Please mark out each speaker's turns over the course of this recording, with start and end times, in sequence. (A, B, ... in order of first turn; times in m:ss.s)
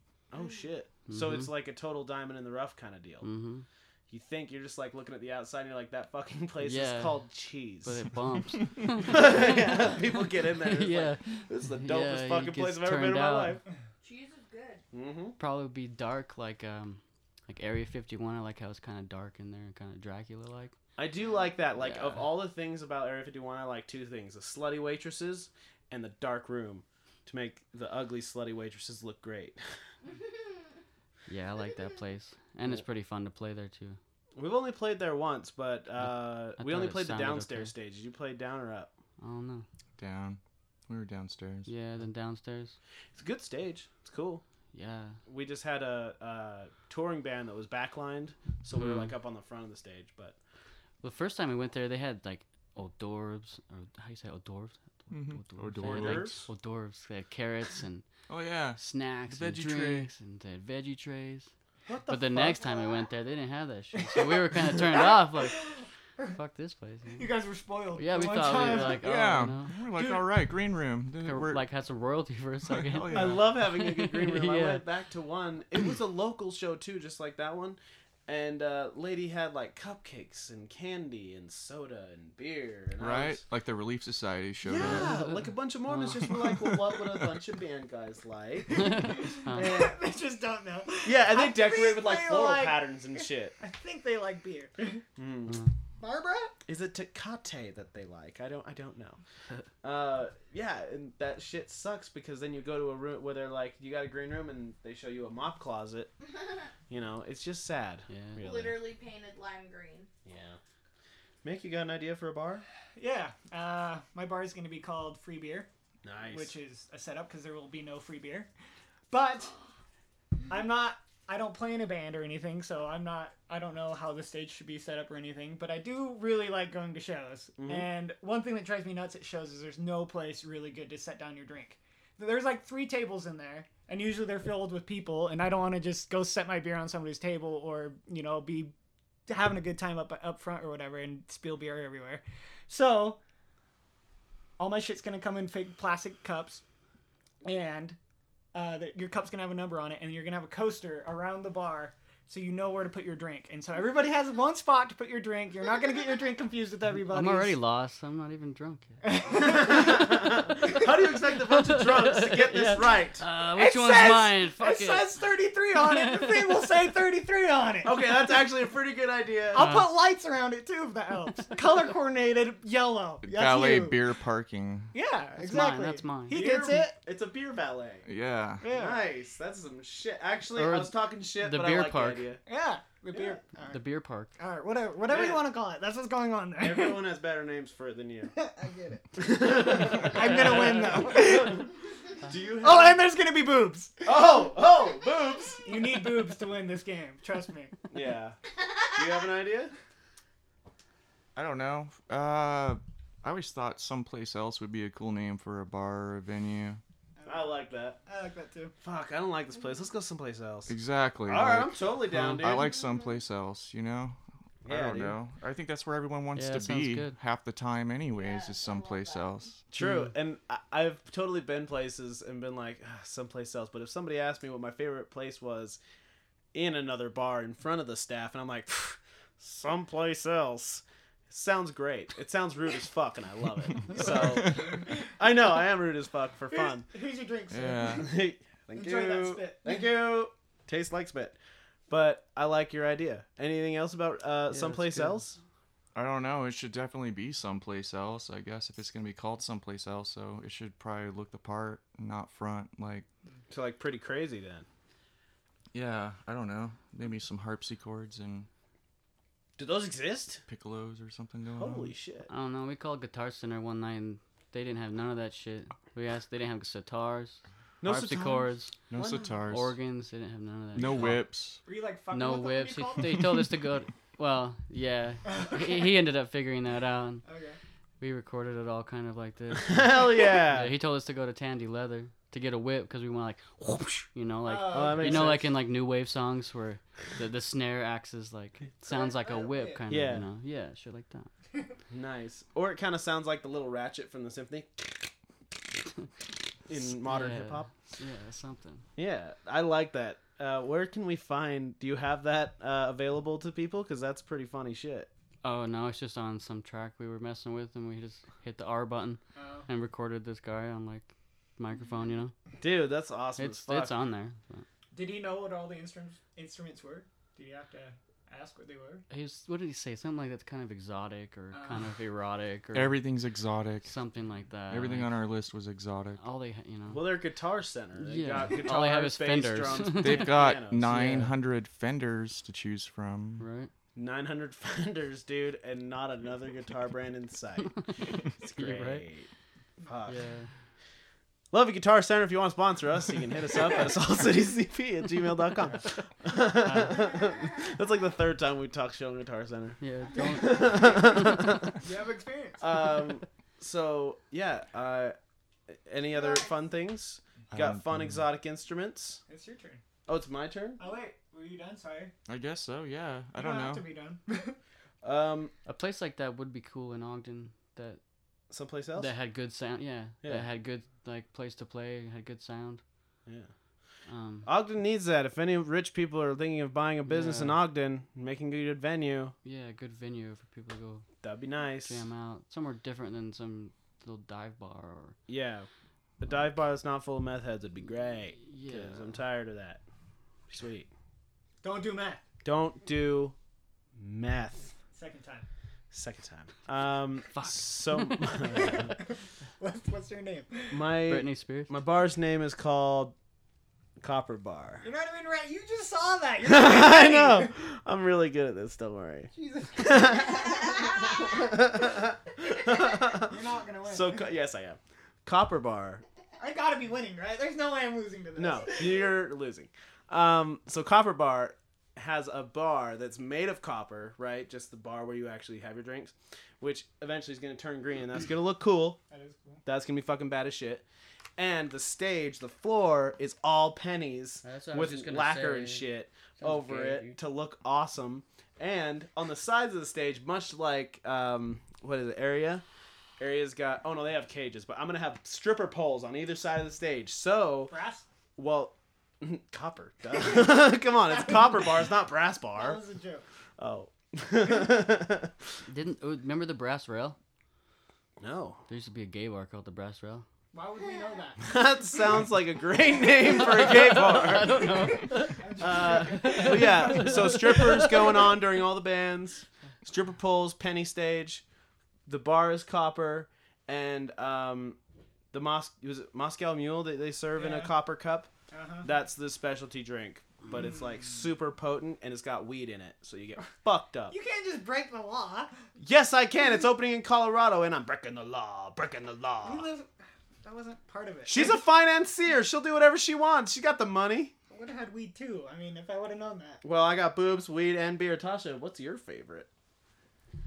0:00.3-0:03.3 A
0:01.1-0:01.5 B
0:03.2-0:03.6 B
0:04.1-0:08.0 A
0:06.6-0:07.3 B
0:07.8-0:13.6 B
0:09.0-0:13.6 A
0:14.0-0:14.8 C
0:14.9-0:15.4 A
0:15.4-0:20.8 B
0:21.0-0:29.6 A
0:21.8-0:22.3 B
0:31.3-0:34.0 B
0:34.4-0:38.9 A
0:36.0-0:37.7 B
0:39.2-0:39.7 B
0:40.0-0:41.7 D
0:41.7-0:42.8 B
0:43.1-0:44.4 A
0:44.7-0:45.2 B
0:45.2-0:50.4 A
0:48.7-0:49.1 B
0:51.0-0:58.1 B
0:55.1-0:56.5 D
0:55.8-0:56.5 A
0:58.3-1:00.1 D
0:58.8-1:01.5 B
1:01.9-1:03.0 A
1:02.1-1:05.6 B
1:04.9-1:06.2 E
1:06.3-1:07.3 B
1:07.2-1:09.0 E
1:08.0-1:09.7 B
1:09.0-1:11.6 D
1:10.0-1:10.3 E
1:11.2-1:14.8 B
1:12.7-1:13.5 D
1:13.1-1:23.4 A
1:23.0-1:25.2 D
1:24.6-1:30.0 A
1:24.8-1:26.3 B
1:26.2-1:26.8 D
1:28.8-1:29.7 B
1:28.8-1:35.0 E
1:31.0-1:33.6 A
1:35.2-1:35.6 A
1:36.0-1:36.6 E
1:36.7-1:39.2 A
1:39.8-1:46.1 A
1:46.9-1:48.8 A
1:48.1-1:48.4 B
1:48.4-1:50.1 C
1:50.2-1:50.6 A
1:51.4-1:52.6 A
1:53.0-1:55.7 E
1:56.0-1:56.6 A
1:56.3-1:58.5 E
1:59.1-1:59.5 E
2:00.5-2:18.7 E
2:07.6-2:07.9 A
2:19.3-2:23.2 E
2:24.6-2:26.6 E
2:27.4-2:28.0 E
2:28.5-2:37.6 E
2:37.1-2:39.0 B
2:39.0-2:40.8 E
2:39.4-2:43.2 A
2:41.5-2:45.2 B
2:43.4-2:48.0 E
2:45.8-2:46.6 B
2:47.8-2:49.6 A
2:49.5-2:54.0 E
2:49.6-2:49.9 B
2:53.2-2:54.9 D
2:54.9-2:56.9 E
2:55.4-2:56.5 B
2:56.3-2:58.1 A
2:58.1-2:58.6 D
2:58.6-2:59.0 E
2:58.7-3:02.4 A
3:00.6-3:02.3 B
3:02.5-3:03.8 E
3:03.7-3:04.3 B
3:04.4-3:07.0 E
3:05.1-3:05.4 A
3:06.6-3:08.4 A
3:08.4-3:11.7 E
3:09.2-3:11.7 A
3:12.2-3:13.0 A
3:12.6-3:14.2 E
3:14.0-3:15.6 A
3:15.6-3:17.8 E
3:17.9-3:18.4 A
3:18.9-3:19.7 A
3:21.4-3:26.8 D
3:27.2-3:28.7 E
3:27.2-3:28.0 A
3:28.8-3:32.7 A
3:30.7-3:39.6 D
3:32.1-3:32.4 B
3:32.8-3:33.1 C
3:34.6-3:35.2 A
3:36.4-3:37.2 B
3:38.1-3:39.4 C
3:39.7-3:45.8 A
3:39.8-3:40.1 B
3:46.5-3:56.9 A
3:53.9-3:55.1 E
3:54.3-3:54.7 D
3:56.5-3:58.1 E
3:57.5-3:58.1 D
3:58.0-4:01.4 A
3:58.7-3:59.9 E
4:01.9-4:05.4 A
4:04.5-4:05.2 B
4:06.0-4:13.1 D
4:13.5-4:14.6 A
4:15.7-4:18.5 D
4:19.6-4:20.4 A
4:20.5-4:21.9 D
4:21.6-4:22.3 A
4:22.3-4:28.7 B
4:27.8-4:29.4 A
4:28.9-4:29.8 D
4:29.5-4:31.2 B
4:30.8-4:31.6 D
4:31.6-4:33.4 E
4:32.1-4:37.2 B
4:35.3-4:35.9 E
4:37.2-4:37.6 E
4:38.0-4:51.3 B
4:39.6-4:40.7 A
4:44.4-4:45.4 E
4:44.7-4:45.5 A
4:48.8-4:49.8 E
4:49.9-4:50.2 A
4:51.9-4:55.1 A
4:56.7-4:57.7 A
4:56.8-4:58.9 B
4:59.0-5:05.1 A
5:05.4-5:12.3 B
5:09.4-5:09.7 E
5:12.6-5:14.0 A
5:13.4-5:14.6 B
5:14.9-5:19.0 E
5:19.1-5:23.0 B
5:21.5-5:21.9 E
5:22.7-5:23.9 D
5:23.8-5:25.2 B
5:24.7-5:26.2 D
5:26.2-5:27.1 B
5:26.9-5:31.0 A
5:28.0-5:31.3 B
5:30.0-5:33.4 D
5:33.4-5:33.7 B
5:34.0-5:37.8 A
5:38.4-5:39.3 A
5:38.5-5:39.1 B
5:39.8-5:40.2 A
5:40.1-5:40.5 B
5:41.5-5:51.8 A
5:46.6-5:47.1 B
5:49.8-5:51.7 B
5:51.8-5:52.8 E
5:52.6-5:55.2 A
5:55.7-5:59.2 A
5:56.1-5:56.6 C
5:57.5-5:58.2 D
5:59.3-5:59.8 E
6:00.1-6:00.8 A
6:00.8-6:02.1 E
6:02.3-6:03.9 D
6:03.4-6:04.6 E
6:05.0-6:05.5 A
6:05.6-6:08.0 B
6:08.5-6:09.1 A
6:09.0-6:12.8 B
6:13.2-6:13.5 A
6:14.1-6:14.5 B
6:14.4-6:19.4 A
6:17.1-6:17.6 B
6:19.4-6:21.1 B
6:21.2-6:22.0 A
6:21.8-6:25.2 B
6:25.3-6:25.7 A
6:26.2-6:29.8 A
6:28.4-6:29.2 B
6:30.5-6:30.9 A
6:31.6-6:32.2 E
6:32.4-6:33.4 A
6:34.0-6:34.7 A
6:34.9-6:35.5 E
6:35.9-6:39.0 A
6:37.3-6:38.4 B
6:38.5-6:39.0 E
6:39.6-6:40.8 E
6:40.7-6:43.1 A
6:41.1-6:41.7 B
6:44.0-6:44.9 A
6:44.8-6:47.5 E
6:46.4-6:56.0 A
6:49.3-6:51.5 E
6:53.1-6:54.3 E
6:56.4-6:59.0 E
6:58.4-7:09.0 A
7:09.1-7:09.6 E
7:09.6-7:10.8 A
7:11.4-7:22.6 A
7:14.4-7:15.9 B
7:16.4-7:17.2 B
7:23.2-7:27.8 A
7:27.7-7:28.0 E
7:28.4-7:32.8 A
7:32.6-7:33.2 E
7:33.6-7:35.3 A
7:35.6-7:37.2 B
7:38.2-7:38.6 A
7:38.7-7:40.3 B
7:40.5-7:41.6 E
7:41.4-7:44.7 A
7:43.3-7:48.1 B
7:44.5-7:48.1 E
7:45.6-7:51.4 A
7:52.1-7:54.8 A
7:55.3-7:58.3 A
7:57.4-7:57.7 E
7:58.5-7:58.9 E
7:58.8-8:04.1 A
8:00.5-8:01.2 E
8:04.1-8:05.6 E
8:05.8-8:09.6 A
8:09.4-8:09.9 E
8:10.4-8:11.6 E
8:11.3-8:14.3 A
8:14.5-8:16.6 E
8:16.6-8:19.5 A